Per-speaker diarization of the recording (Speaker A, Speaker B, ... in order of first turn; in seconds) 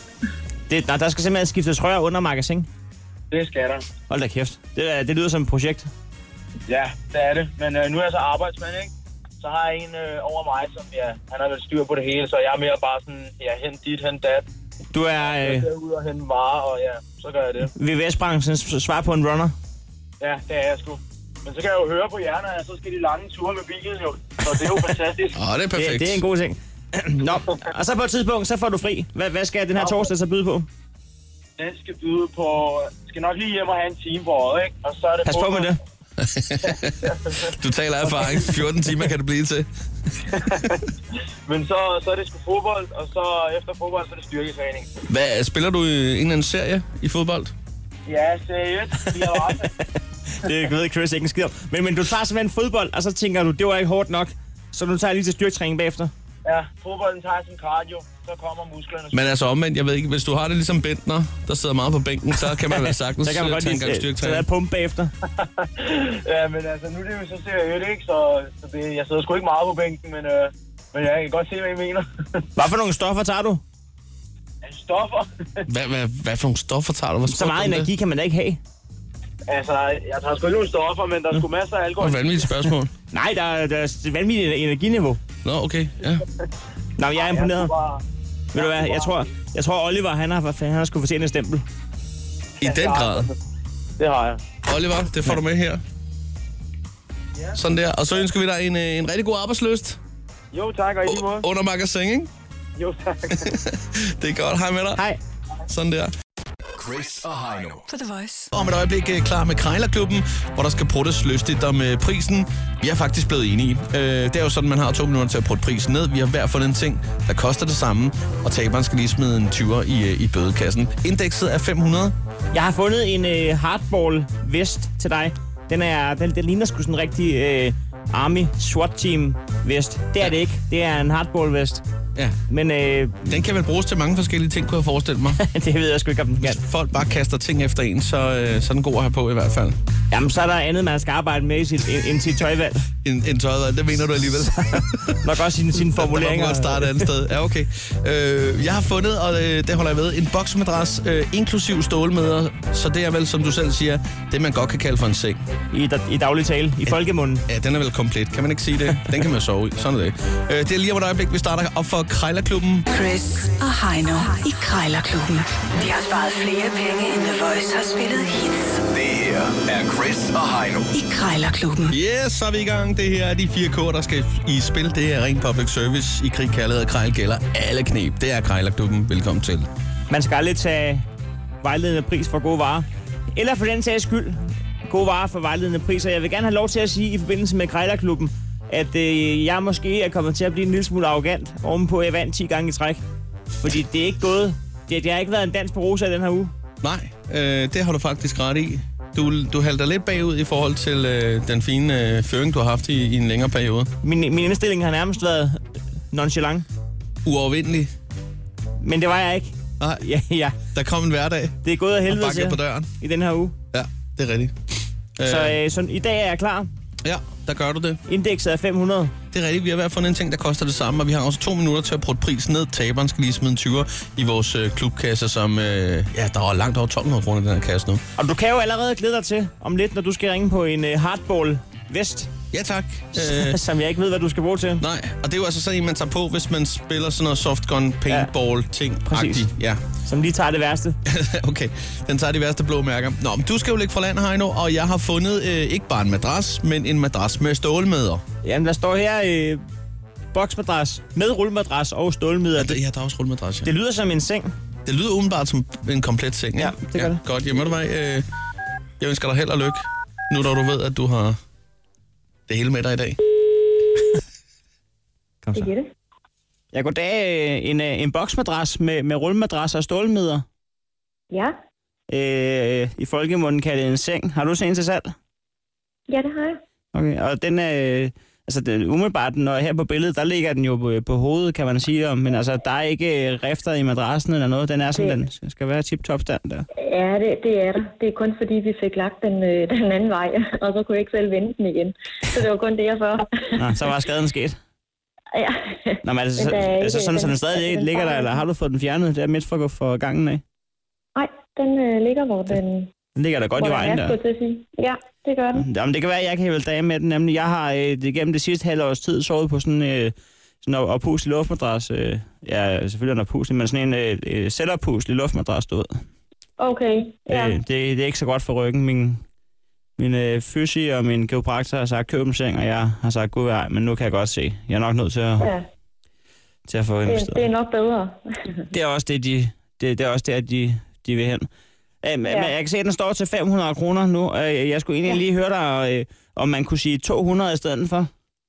Speaker A: 0.7-2.7, 4.1-5.9, 14.9-15.7, 17.7-19.5, 25.8-30.7, 35.2-35.8, 50.3-56.1, 62.5-65.1, 72.5-73.6, 77.3-78.6, 83.1-85.2, 87.0-87.7, 88.5-91.6, 122.5-131.8, 132.5-133.3, 135.4-136.6, 140.1-142.8, 145.2-147.1, 155.7-157.4, 180.1-181.1, 181.6-193.0, 193.6-196.5, 204.0-205.6, 206.1-206.7, 208.8-210.6, 211.6-213.5, 215.2-216.7, 218.1-219.1, 228.2-232.3, 233.1-234.8, 239.1-239.5, 240.0-241.0, 248.4-249.6, 250.3-252.8, 253.6-254.5, 256.6-257.2, 265.4-265.7, 266.7-270.4, 272.1-275.1, 276.9-286.6, 293.6-294.6, 296.0-300.4, 303.1-304.2, 305.6-316.0, 317.3-319.2, 320.0-325.5, 326.7-327.4, 328.7-331.5, 332.0-338.1
Speaker B: 3.3-3.9, 6.7-14.5, 15.2-17.7, 20.2-25.4, 29.8-30.1, 31.6-35.8, 36.6-37.5, 38.1-38.5, 40.3-40.8, 41.5-44.9, 48.0-49.7, 56.4-59.3, 65.4-72.1, 74.6-75.7, 79.5-82.7, 87.1-88.0, 88.5-89.2, 92.6-93.3, 94.0-94.4, 100.5-101.5, 102.8-103.5
Speaker C: 25.3-26.2, 36.2-39.7, 45.1-47.5, 59.1-64.5, 75.7-77.9, 82.0-82.9, 85.4-86.2, 92.6-93.3, 94.7-95.8, 97.5-100.0, 101.0-102.3, 103.3-105.0, 105.7-106.1, 108.5-122.1, 133.2-135.4, 136.4-139.8, 143.0-145.2, 145.8-155.4, 156.8-162.8, 171.9-179.7, 196.8-203.9, 207.2-207.9, 210.7-212.9, 213.7-214.6, 215.2-215.6, 217.0-218.0, 219.3-228.0, 232.5-233.6, 234.8-239.8, 241.1-248.2, 252.6-253.7, 254.8-258.2, 259.0-261.4, 262.5-263.2
Speaker D: 106.8-107.8, 168.9-170.9
Speaker E: 107.9-108.5, 162.9-168.8, 170.9-171.9
Speaker F: 265.5-265.9, 276.1-276.6, 286.8-293.6, 295.3-298.4, 301.1-302.9, 303.6-305.6, 316.6-317.6, 325.4-325.6, 327.1-328.6, 332.2-332.5